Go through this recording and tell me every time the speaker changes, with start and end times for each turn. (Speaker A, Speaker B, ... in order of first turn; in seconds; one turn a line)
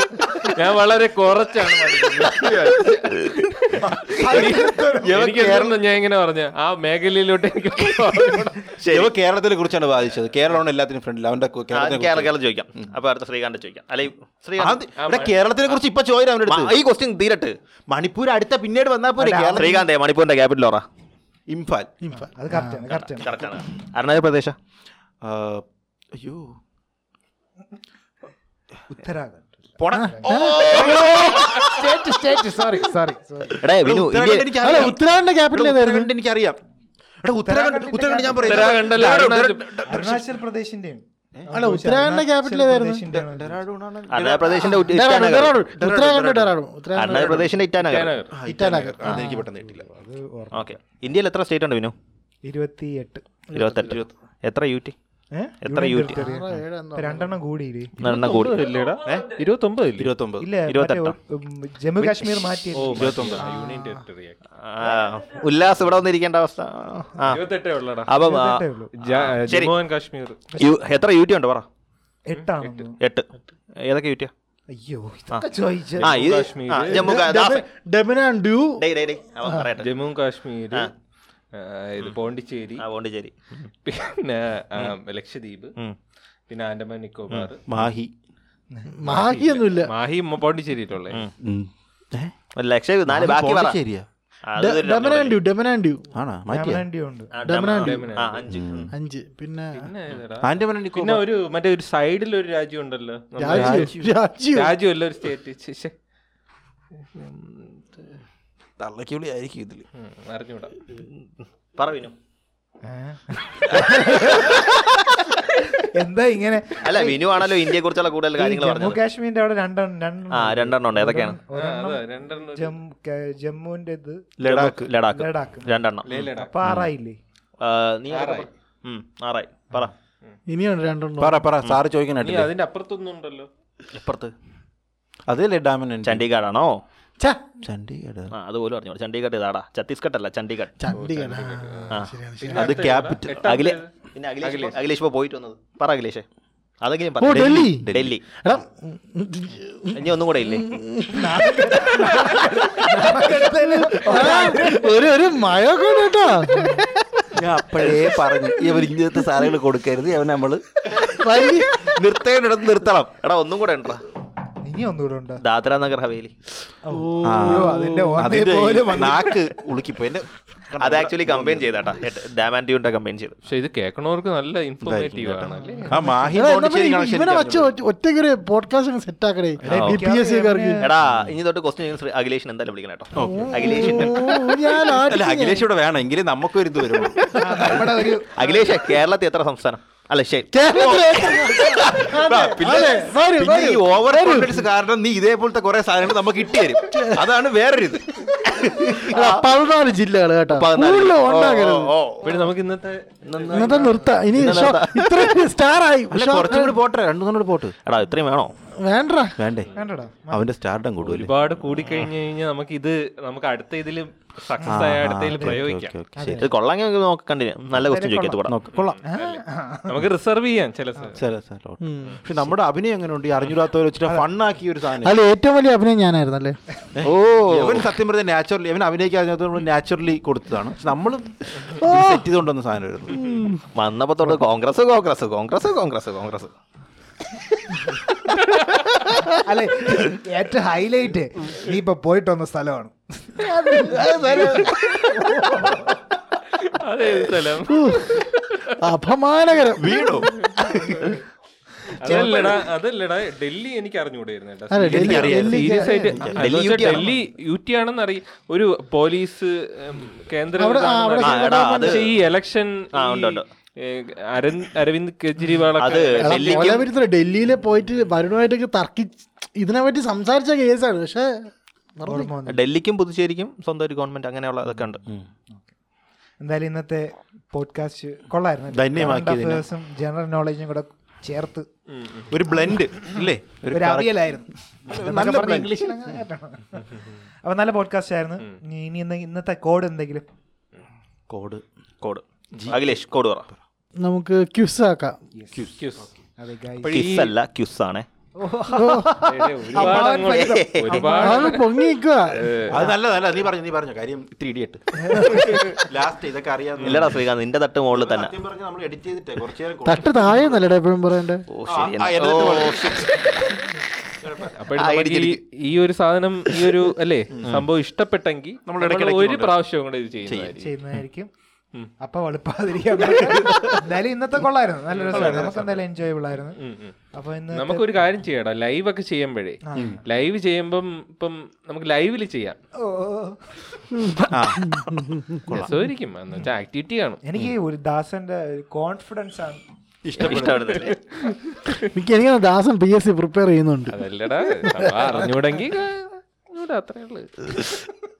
Speaker A: 0.2-8.8
Speaker B: 2.3-3.1
Speaker C: 3.8-5.2
Speaker D: 4.2-5.8
Speaker B: 8.7-9.1
Speaker D: 8.9-12.3
Speaker B: 11.7-14.8
Speaker D: 14.6-16.8
Speaker A: 15.0-15.3
Speaker B: 16.5-17.6
Speaker D: 17.9-19.8
Speaker C: 19.2-19.8
Speaker B: 19.6-20.8
Speaker D: 21.5-21.9
Speaker E: 22.0-22.8
Speaker C: 22.3-23.4
Speaker B: 22.9-24.6
Speaker D: 25.2-26.6
Speaker C: 28.9-33.6
Speaker D: 29.8-31.6
Speaker E: 29.9-30.9
Speaker B: 30.2-31.5
Speaker B: 33.5-34.9
Speaker D: 33.7-35.0
Speaker E: 34.6-36.1
Speaker D: 35.5-36.6
Speaker D: 37.2-40.3
Speaker C: 37.4-38.8
Speaker A: 38.3-39.8
Speaker C: 39.9-43.6
Speaker E: 41.5-43.0
Speaker D: 43.0-44.8
Speaker B: 44.1-45.6
Speaker E: 44.8-47.6
Speaker D: 45.8-46.5
Speaker B: 46.9-48.1
Speaker A: 47.8-48.4
Speaker D: 48.3-49.9
Speaker E: 48.4-49.3
Speaker C: 49.0-50.7
Speaker B: 50.5-51.9
Speaker C: 52.4-53.2
Speaker D: 53.5-54.1
Speaker B: 53.5-54.9
Speaker C: 55.3-57.9
Speaker B: 55.6-56.2
Speaker E: 56.1-57.3
Speaker A: 58.0-60.1
Speaker B: 58.0-59.3
Speaker D: 60.0-60.5
Speaker C: 60.4-64.0
Speaker B: 60.6-61.1
Speaker A: 62.7-64.4
Speaker D: 62.9-63.5
Speaker B: 64.5-67.4
Speaker A: 67.2-68.1
Speaker B: 68.1-69.7
Speaker C: 68.1-68.9
Speaker A: 69.0-70.4
Speaker C: 70.5-70.8
Speaker B: 70.5-71.7
Speaker C: 72.2-73.0
Speaker A: 72.4-72.8
Speaker B: 73.0-74.3
Speaker C: 74.7-76.1
Speaker A: 76.0-77.1
Speaker B: 76.0-77.6
Speaker E: 76.9-78.8
Speaker B: 78.8-79.9
Speaker A: 79.8-80.9
Speaker A: 81.5-82.8
Speaker B: 82.8-83.7
Speaker A: 83.8-85.7
Speaker A: 86.5-87.6
Speaker D: 87.7-88.1
Speaker C: 88.7-89.0
Speaker E: 88.9-89.9
Speaker A: 89.0-91.2
Speaker D: 91.4-92.3
Speaker B: 92.5-93.8
Speaker D: 93.1-94.0
Speaker B: 94.5-95.4
Speaker E: 94.6-96.1
Speaker D: 96.1-96.8
Speaker C: 96.5-97.3
Speaker B: 97.3-98.8
Speaker E: 97.4-98.2
Speaker A: 97.7-98.5
Speaker D: 98.5-98.9
Speaker E: 98.9-99.9
Speaker A: 99.7-103.9
Speaker D: 100.4-101.2
Speaker E: 103.4-104.8
Speaker D: 103.5-104.1
Speaker A: 104.5-105.9
Speaker A: 107.0-108.2
Speaker D: 108.8-109.8
Speaker A: 109.9-110.8
Speaker B: 111.0-112.1
Speaker C: 112.8-114.8
Speaker C: 115.8-117.5
Speaker B: 116.8-119.0
Speaker C: 118.3-124.3
Speaker B: 120.3-121.4
Speaker A: 121.5-122.8
Speaker D: 124.4-124.9
Speaker B: 124.4-126.1
Speaker C: 125.0-125.8
Speaker A: 126.1-126.5
Speaker D: 126.1-126.9
Speaker C: 126.3-127.2
Speaker B: 127.6-129.9
Speaker A: 128.1-128.5
Speaker E: 130.5-131.5
Speaker D: 131.2-132.5
Speaker A: 132.2-133.5
Speaker B: 133.9-134.3
Speaker D: 135.3-136.2
Speaker B: 136.0-136.8
Speaker E: 137.2-137.4
Speaker D: 137.6-138.3
Speaker B: 138.3-140.7
Speaker E: 140.8-142.6
Speaker A: 140.9-143.9
Speaker D: 142.5-143.5
Speaker B: 143.4-146.2
Speaker A: 144.4-144.8
Speaker B: 146.8-148.2
Speaker E: 147.2-151.7
Speaker D: 147.2-148.1
Speaker B: 149.9-150.8
Speaker C: 151.1-155.0
Speaker A: 152.0-153.3
Speaker E: 153.4-156.9
Speaker D: 157.3-163.1
Speaker E: 161.0-161.8
Speaker B: 163.2-164.0
Speaker C: 164.6-165.4
Speaker B: 165.4-166.3
Speaker C: 166.8-169.5
Speaker E: 166.9-168.3
Speaker D: 167.2-171.8
Speaker B: 170.8-173.3
Speaker A: 173.4-176.0
Speaker D: 174.8-177.7
Speaker C: 175.5-176.4
Speaker E: 176.3-180.8
Speaker D: 179.6-180.0
Speaker C: 179.7-180.9
Speaker B: 180.8-184.6
Speaker D: 181.0-181.3
Speaker D: 183.1-184.2
Speaker E: 183.2-185.6
Speaker D: 185.0-188.1
Speaker C: 187.3-188.8
Speaker B: 187.4-190.8
Speaker E: 190.5-194.6
Speaker D: 190.7-198.8
Speaker E: 196.9-197.2
Speaker B: 198.6-199.4
Speaker E: 198.9-201.9
Speaker B: 200.5-202.3
Speaker A: 202.2-204.1
Speaker B: 203.2-205.4
Speaker E: 203.5-206.7
Speaker D: 206.1-207.7
Speaker B: 207.8-208.5
Speaker E: 208.7-209.3
Speaker D: 209.4-209.7
Speaker C: 209.7-210.4
Speaker D: 210.3-211.3
Speaker A: 211.0-215.9
Speaker C: 214.6-215.6
Speaker D: 214.7-216.5
Speaker C: 216.2-216.5
Speaker B: 216.4-218.6
Speaker C: 217.8-218.4
Speaker D: 218.5-219.0
Speaker A: 218.7-221.2
Speaker C: 219.1-220.0
Speaker D: 221.1-225.1
Speaker E: 221.8-222.2
Speaker E: 225.0-226.6
Speaker D: 226.9-233.3
Speaker B: 227.0-227.9
Speaker E: 231.8-232.2
Speaker E: 233.1-233.6
Speaker B: 233.7-236.5
Speaker B: 238.3-239.4
Speaker C: 239.3-246.0
Speaker E: 243.6-244.6
Speaker D: 243.8-244.7
Speaker A: 246.6-248.7
Speaker E: 247.6-250.3
Speaker D: 249.8-251.2
Speaker A: 250.4-251.1
Speaker C: 250.6-251.2
Speaker C: 252.0-252.6
Speaker A: 252.0-266.8
Speaker D: 252.1-252.5
Speaker E: 254.7-256.0
Speaker D: 254.8-257.0
Speaker C: 255.1-256.4
Speaker B: 256.4-257.1
Speaker E: 260.6-262.0
Speaker B: 261.2-262.1
Speaker B: 262.9-263.4
Speaker B: 265.8-266.9
Speaker E: 266.2-272.3
Speaker C: 272.0-272.6
Speaker B: 272.5-275.0
Speaker C: 276.4-281.7
Speaker D: 278.7-279.6
Speaker A: 281.9-282.3
Speaker D: 282.3-284.3
Speaker C: 283.7-290.3
Speaker D: 284.9-286.2
Speaker D: 291.3-291.6
Speaker B: 292.0-293.5
Speaker D: 292.5-292.9
Speaker E: 294.0-295.2
Speaker C: 295.3-295.6
Speaker D: 295.5-296.1
Speaker A: 295.8-296.1
Speaker C: 296.4-297.0
Speaker A: 296.8-297.3
Speaker B: 296.9-298.1
Speaker C: 298.4-301.8
Speaker E: 298.7-299.2
Speaker A: 299.2-301.7
Speaker B: 299.9-301.1
Speaker E: 301.0-302.4
Speaker A: 302.3-302.8
Speaker C: 302.5-302.9
Speaker D: 302.7-307.2
Speaker C: 305.0-305.7
Speaker A: 306.8-307.1
Speaker B: 306.8-308.3
Speaker D: 307.9-310.1
Speaker E: 309.8-311.4
Speaker B: 311.5-313.6
Speaker D: 311.7-313.4
Speaker D: 314.2-315.3
Speaker A: 314.5-320.7
Speaker B: 314.8-315.3
Speaker D: 317.3-317.7
Speaker D: 318.6-319.6
Speaker D: 320.2-320.5
Speaker C: 320.6-321.3
Speaker C: 322.0-326.6
Speaker A: 324.9-325.7
Speaker D: 325.1-325.8
Speaker A: 326.6-326.9
Speaker C: 327.1-327.9
Speaker A: 327.5-332.6
Speaker C: 329.6-330.0
Speaker D: 329.8-330.0
Speaker C: 332.8-333.8
Speaker E: 333.9-335.5
Speaker D: 334.3-334.7
Speaker D: 335.5-335.7
Speaker A: 335.5-337.2
Speaker C: 337.2-339.6
Speaker D: 340.0-340.9
Speaker B: 340.2-341.0
Speaker A: 340.2-340.6
Speaker A: 341.5-341.8
Speaker E: 341.9-345.0
Speaker A: 343.9-347.9
Speaker C: 345.0-345.4